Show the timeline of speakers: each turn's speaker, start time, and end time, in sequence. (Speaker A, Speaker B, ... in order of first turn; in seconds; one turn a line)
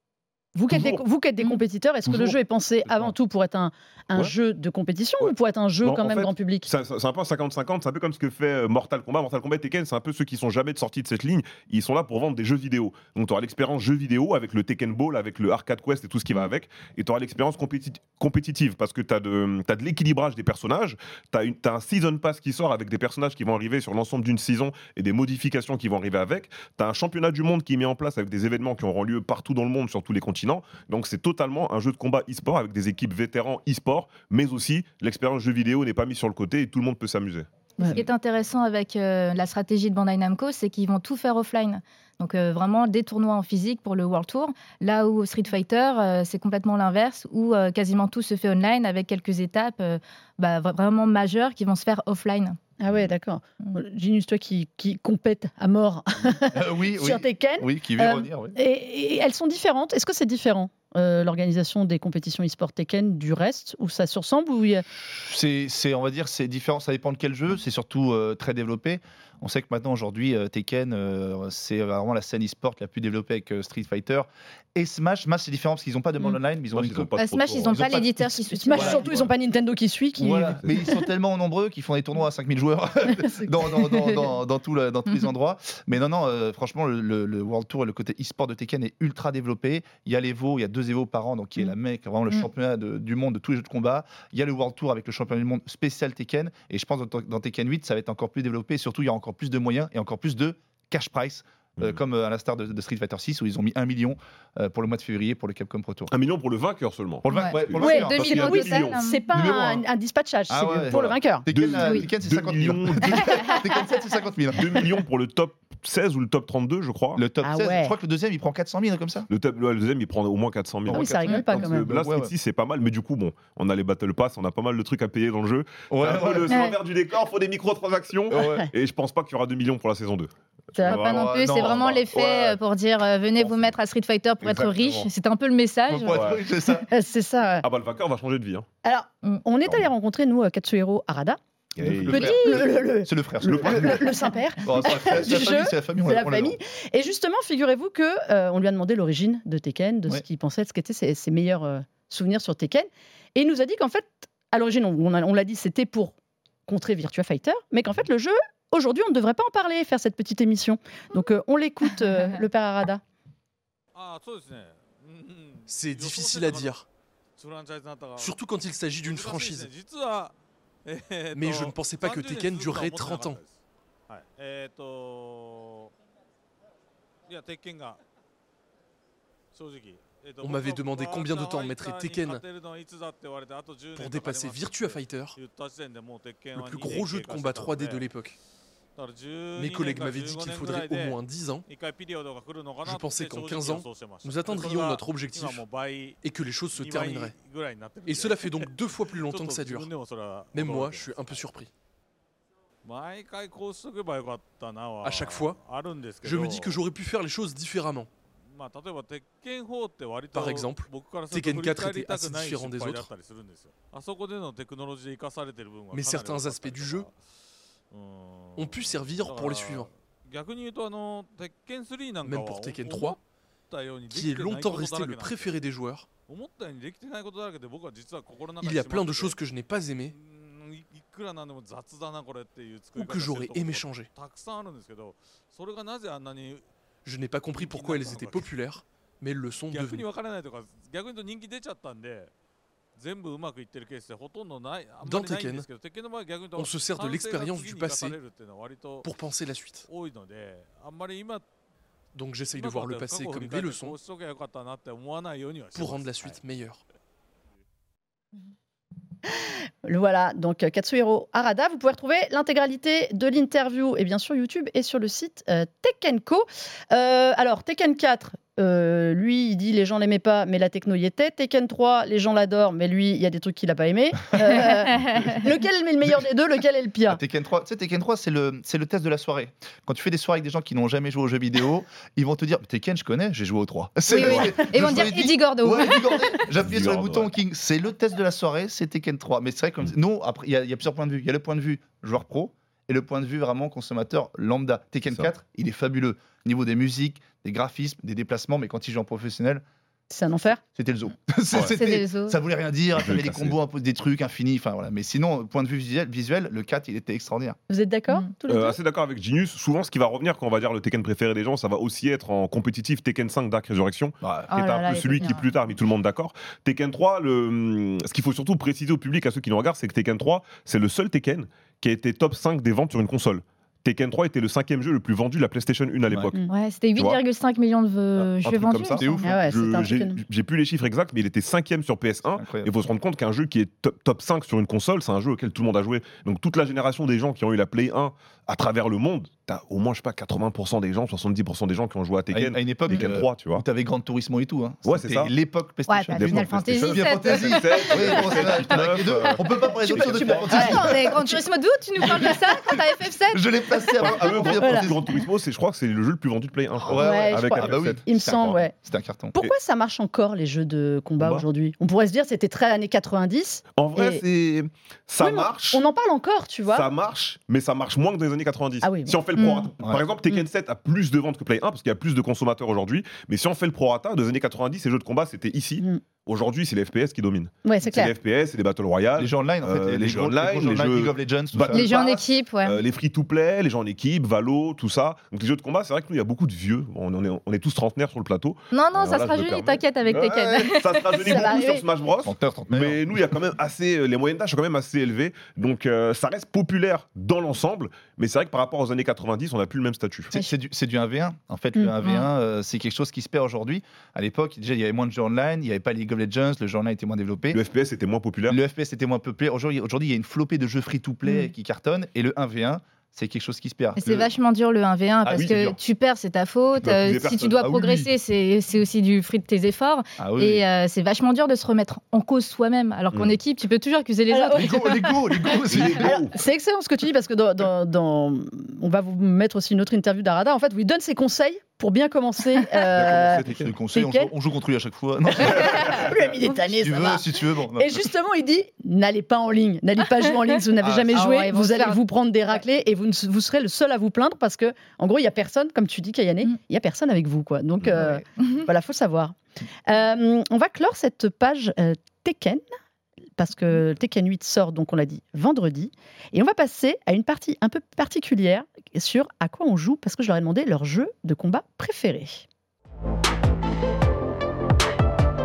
Speaker A: 0.6-6.7
Speaker B: 0.7-1.0
Speaker B: 2.1-2.4
Speaker B: 5.2-37.5
Speaker C: 37.8-52.6
Speaker A: 52.8-64.8
Speaker D: 56.5-58.6
Speaker D: 65.0-77.1
Speaker B: 76.7-77.9
Speaker C: 77.2-79.1
Speaker D: 77.7-78.2
Speaker A: 78.2-80.6
Speaker D: 78.7-79.2
Speaker B: 78.8-79.3
Speaker D: 80.2-106.1
Speaker B: 106.1-109.0
Speaker D: 107.2-108.5
Speaker C: 107.3-109.2
Speaker A: 107.8-111.5
Speaker D: 109.3-109.8
Speaker D: 110.5-114.9
Speaker B: 111.5-113.6
Speaker B: 114.5-117.2
Speaker D: 117.2-119.3
Speaker A: 117.4-118.0
Speaker B: 119.3-132.5
Speaker D: 120.9-122.3
Speaker A: 120.9-121.9
Speaker D: 125.9-126.6
Speaker C: 126.5-126.7
Speaker D: 128.3-128.7
Speaker A: 128.4-128.7
Speaker A: 130.8-131.0
Speaker D: 130.8-132.6
Speaker C: 130.9-136.2
Speaker B: 134.4-135.1
Speaker D: 135.9-136.9
Speaker B: 136.1-136.4
Speaker A: 136.9-137.7
Speaker B: 137.6-138.7
Speaker A: 138.8-141.4
Speaker B: 141.8-142.4
Speaker D: 141.8-144.1
Speaker A: 142.1-156.2
Speaker B: 143.5-144.0
Speaker D: 144.6-146.6
Speaker A: 156.7-163.0
Speaker E: 163.9-166.8
Speaker F: 165.7-166.9
Speaker E: 167.4-168.4
Speaker F: 168.2-169.7
Speaker E: 168.9-175.9
Speaker F: 171.3-173.4
Speaker E: 177.3-178.0
Speaker E: 179.5-188.1
Speaker F: 180.4-182.4
Speaker F: 184.0-185.4
Speaker F: 186.6-188.4
Speaker E: 189.0-201.5
Speaker F: 189.6-191.7
Speaker F: 192.8-195.6
Speaker F: 196.2-197.3
Speaker F: 198.1-199.9
Speaker F: 200.5-201.7
Speaker E: 202.8-206.8
Speaker F: 205.0-205.6
Speaker F: 206.2-208.1
Speaker E: 208.5-217.2
Speaker F: 210.3-213.1
Speaker F: 215.9-217.1
Speaker E: 217.9-225.6
Speaker F: 218.6-219.9
Speaker F: 222.2-223.2
Speaker F: 224.1-226.1
Speaker E: 226.3-229.4
Speaker F: 228.6-230.1
Speaker E: 230.1-236.6
Speaker F: 233.0-234.1
Speaker F: 237.1-240.1
Speaker E: 237.5-238.5
Speaker E: 239.7-242.3
Speaker E: 243.0-249.1
Speaker F: 245.1-245.7
Speaker F: 246.6-248.2
Speaker F: 249.0-249.9
Speaker E: 249.9-251.4
Speaker F: 252.1-254.0
Speaker E: 252.4-256.4
Speaker F: 255.8-256.8
Speaker A: 259.3-277.2
Speaker C: 274.9-275.4
Speaker D: 277.1-299.6
Speaker C: 284.1-286.4
Speaker B: 284.1-285.0
Speaker B: 286.6-287.3
Speaker A: 300.1-300.6
Speaker D: 300.6-307.6
Speaker C: 301.6-302.4
Speaker B: 302.9-303.6
Speaker A: 307.7-308.8
Speaker B: 308.5-326.4
Speaker D: 314.2-315.4
Speaker C: 314.5-315.4
Speaker D: 326.1-326.4
Speaker C: 326.5-329.3
Speaker B: 328.2-343.6
Speaker D: 328.9-329.4
Speaker A: 329.2-330.2
Speaker D: 332.4-332.7
Speaker D: 342.3-351.4
Speaker B: 344.9-345.3
Speaker C: 345.9-348.5
Speaker B: 346.1-351.0
Speaker A: 349.8-350.9
Speaker C: 350.5-354.1
Speaker D: 352.0-352.8
Speaker D: 353.3-355.1
Speaker B: 354.0-358.0
Speaker A: 354.6-354.9
Speaker D: 356.8-359.4
Speaker A: 356.9-358.8
Speaker A: 359.3-364.2
Speaker B: 361.2-361.5
Speaker B: 363.8-365.8
Speaker A: 365.2-366.9
Speaker B: 366.7-400.3
Speaker A: 368.8-369.2
Speaker C: 369.4-369.7
Speaker A: 377.6-378.1
Speaker D: 379.2-382.2
Speaker C: 381.7-382.8
Speaker C: 388.7-391.5
Speaker A: 391.2-391.9
Speaker D: 392.2-393.2
Speaker D: 400.3-407.6
Speaker B: 407.5-408.6
Speaker D: 408.5-414.3
Speaker C: 414.0-425.6
Speaker B: 415.3-415.7
Speaker D: 415.3-415.8
Speaker B: 416.8-417.6
Speaker D: 417.6-418.1
Speaker D: 420.2-420.6
Speaker A: 424.3-424.8
Speaker D: 424.5-426.3
Speaker B: 425.7-426.2
Speaker A: 425.9-434.3
Speaker B: 432.9-433.7
Speaker D: 432.9-438.1
Speaker A: 435.6-452.6
Speaker D: 440.8-441.3
Speaker C: 441.1-442.0
Speaker D: 447.8-448.2
Speaker A: 453.4-462.5